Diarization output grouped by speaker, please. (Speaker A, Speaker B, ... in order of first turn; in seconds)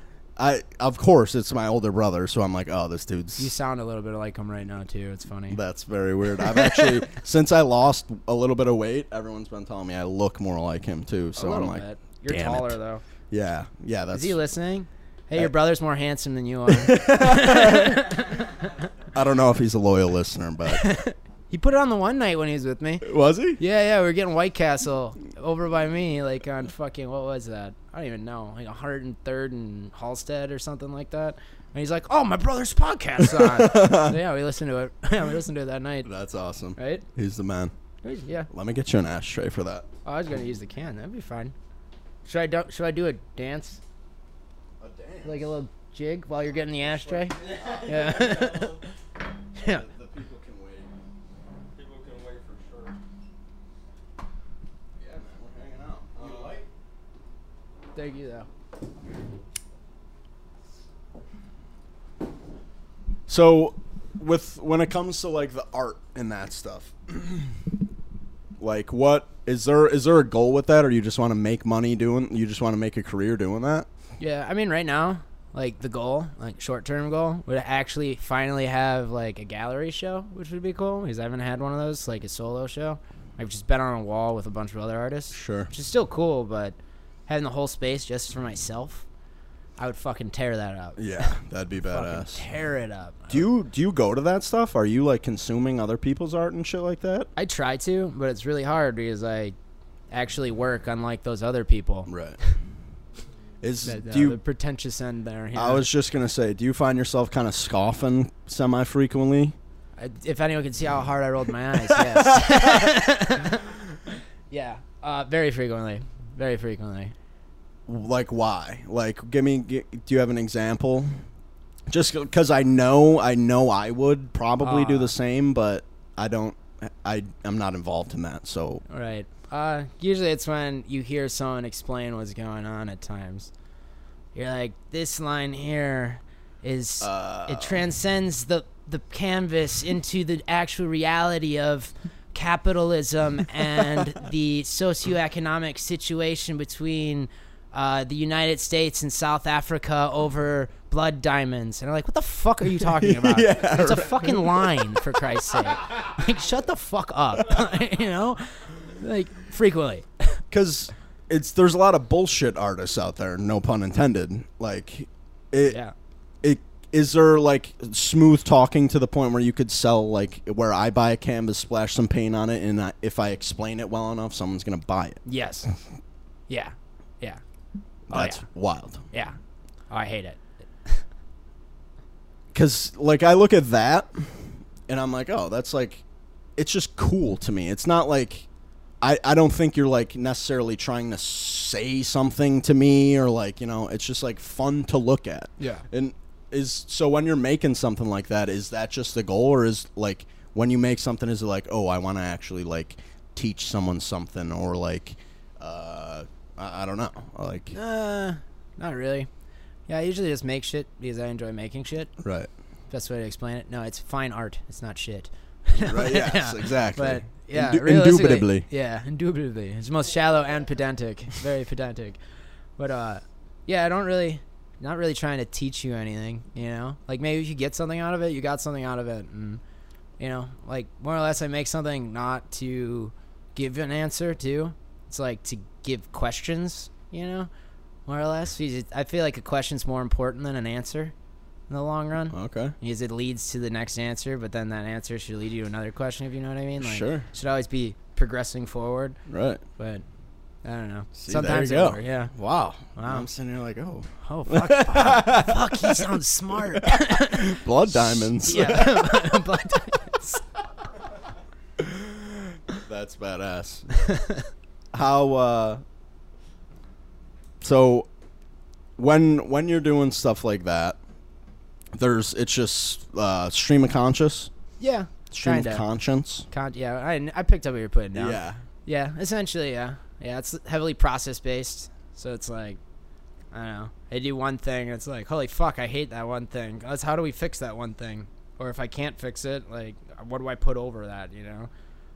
Speaker A: 0.4-3.5, 5.5-12.8, 13.3-14.4, 16.7-18.1, 19.1-20.8, 23.0-23.6, 33.3-34.2, 36.0-37.7, 38.5-39.9, 44.8-45.5, 47.2-48.4, 49.6-50.9, 55.0-56.6, 63.3-67.6, 68.6-73.9, 85.3-85.7, 91.0-92.4, 93.3-97.3, 102.1-102.4, 103.6-104.4, 105.5-109.5, 111.9-112.9, 117.9-121.1, 121.9-128.8, 137.0-137.8, 152.9-155.0, 160.5-165.8, 166.4-175.2, 178.1-179.0, 182.5-186.0, 186.6-188.5, 189.0-207.8, 212.2-212.5, 215.8-218.7, 242.3-242.7, 246.8-247.3, 249.3-249.6, 251.2-256.2, 256.7-259.4, 261.8-263.9, 264.9-265.8, 267.6-268.1, 269.0-271.0, 271.9-274.5, 275.3-276.5, 278.1-278.6
Speaker B: 3.4-5.6, 11.3-13.0, 14.1-18.6, 20.7-23.1, 23.6-36.1, 36.8-37.0, 38.0-38.5, 40.0-41.5, 42.2-43.8, 45.2-48.9, 49.5-49.8, 57.9-58.5, 74.2-86.8, 87.3-89.0, 89.8-91.3, 91.9-93.5, 97.3-99.5, 100.1-102.1, 103.8-105.8, 110.0-113.7, 114.5-117.1, 124.6-125.1, 128.9-133.5, 134.3-160.3, 165.7-165.9, 175.2-175.7, 176.5-177.4, 178.1-178.4, 179.1-179.3, 179.9-181.0, 195.6-195.8, 207.7-209.3, 209.9-212.1, 212.9-222.2, 222.8-229.6, 230.2-237.5, 238.1-241.1, 241.7-249.2, 249.8-250.0, 250.6-252.3, 252.9-253.3, 254.2-260.4, 264.0-264.4, 274.8-275.8, 276.5-282.8, 283.5-291.7
Speaker C: 47.3-48.8, 51.7-53.0, 56.1-56.6